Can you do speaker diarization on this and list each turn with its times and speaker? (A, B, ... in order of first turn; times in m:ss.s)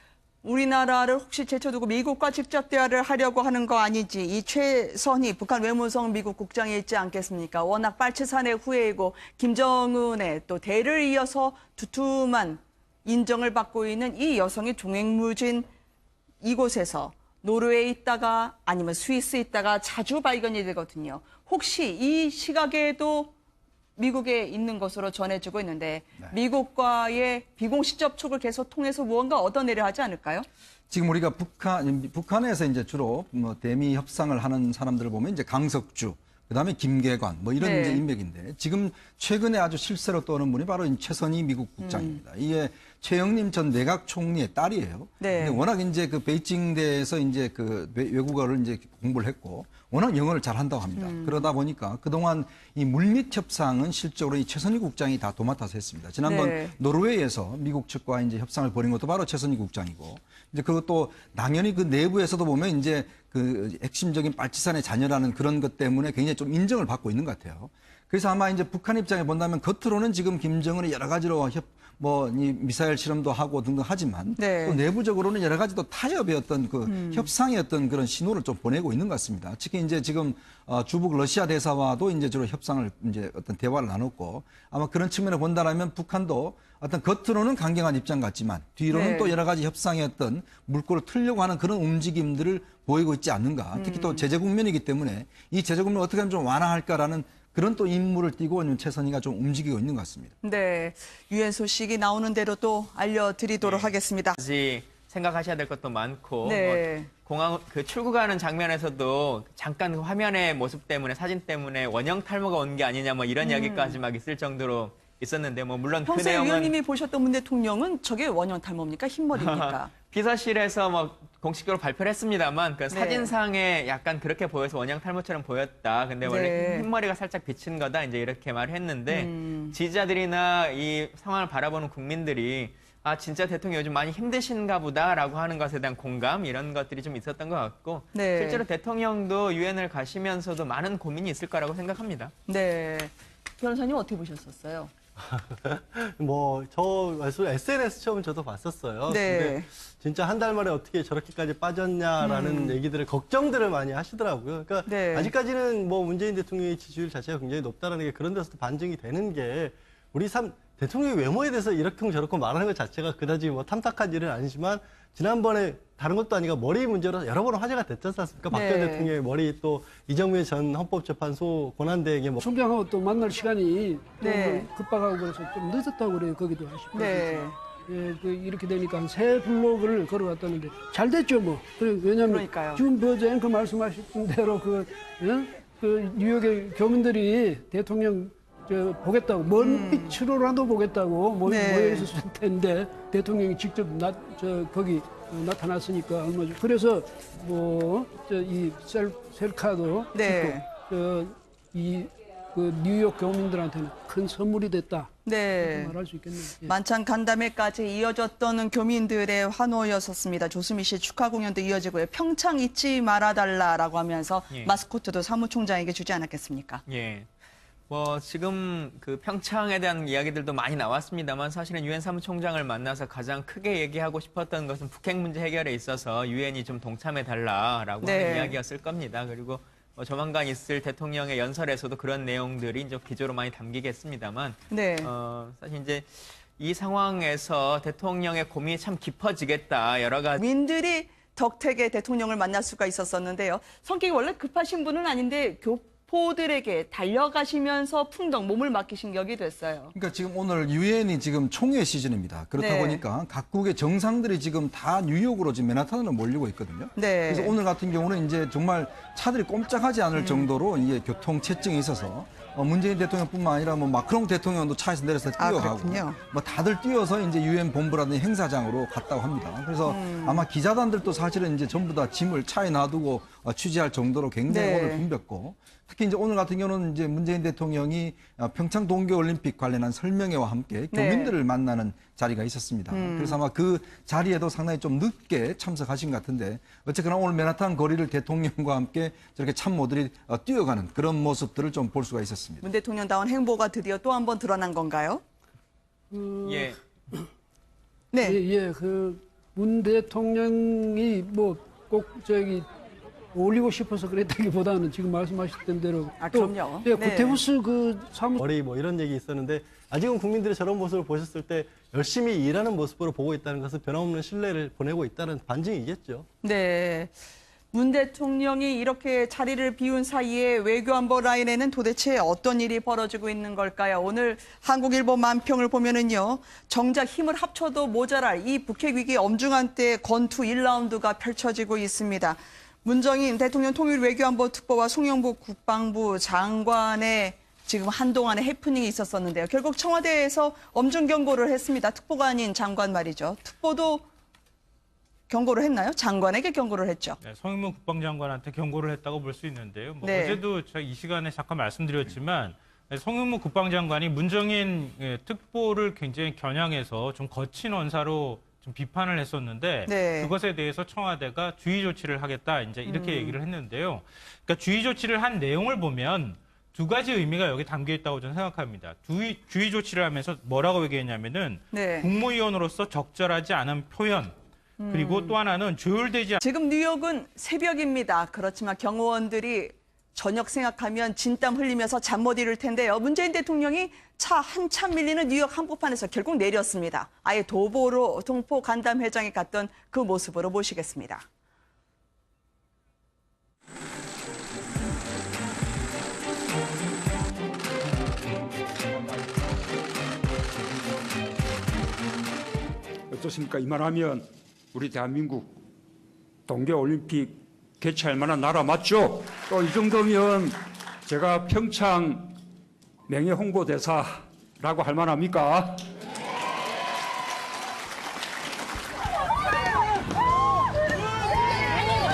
0:00.4-0:15.7 A
0:16.4-0:23.3 A
0:24.0-0:30.5 A
0:30.9-1:40.3 B
0:37.6-0:38.0 A
0:41.8-0:42.2 A
0:45.2-0:45.6 A
0:51.0-0:51.5 A
0:56.2-0:56.7 A
1:14.4-1:14.8 A
1:16.8-1:17.3 A
1:28.9-1:29.3 A
1:33.7-1:34.2 A
1:40.4-1:44.4 A
1:43.6-1:56.7 C
1:46.4-1:47.1 A
1:53.4-1:54.0 A
1:56.0-1:59.9 A
1:59.3-2:22.3 C
2:02.9-2:03.3 A
2:06.2-2:06.9 A
2:09.1-2:09.7 A
2:18.1-2:18.6 A
2:22.5-2:24.9 A
2:25.2-2:52.5 D
2:29.1-2:29.7 A
2:32.2-2:32.8 A
2:34.8-2:35.3 A
2:48.5-2:49.1 A
2:52.4-3:26.7 E
2:54.2-2:54.7 A
2:56.9-2:57.6 A
3:02.3-3:02.8 A
3:09.6-3:10.2 A
3:11.4-3:12.1 A
3:20.1-3:20.7 A
3:25.2-3:26.0 A
3:26.6-3:36.8 A
3:34.5-3:34.8 C
3:36.9-3:37.3 C
3:37.9-4:00.4 C
3:48.0-3:48.6 A
3:54.7-3:55.1 A
4:00.4-4:09.9 A
4:09.9-4:52.6 B
4:12.6-4:13.0 A
4:17.0-4:17.6 A
4:20.1-4:20.5 A
4:25.4-4:26.2 A
4:29.8-4:30.4 A
4:34.5-4:35.0 A
4:40.9-4:41.3 A
4:42.9-4:43.4 A
4:52.6-4:55.2 A
4:56.1-4:57.3 E
4:56.4-4:56.8 C
4:58.1-4:58.4 A
4:58.2-5:02.7 E
5:03.3-5:08.4 E
5:06.2-5:07.4 A
5:08.4-5:16.2 D
5:16.4-5:17.1 A
5:17.7-5:44.0 A
5:45.3-5:47.2 A
5:47.2-6:14.3 F
5:50.0-5:50.4 A
5:59.8-6:00.3 A
6:02.8-6:03.4 A
6:11.7-6:12.1 A
6:14.8-6:15.4 A
6:14.9-6:16.4 F
6:16.4-6:31.2 A
6:43.1-6:45.6 G
6:46.5-6:52.4 G
6:53.1-6:55.9 G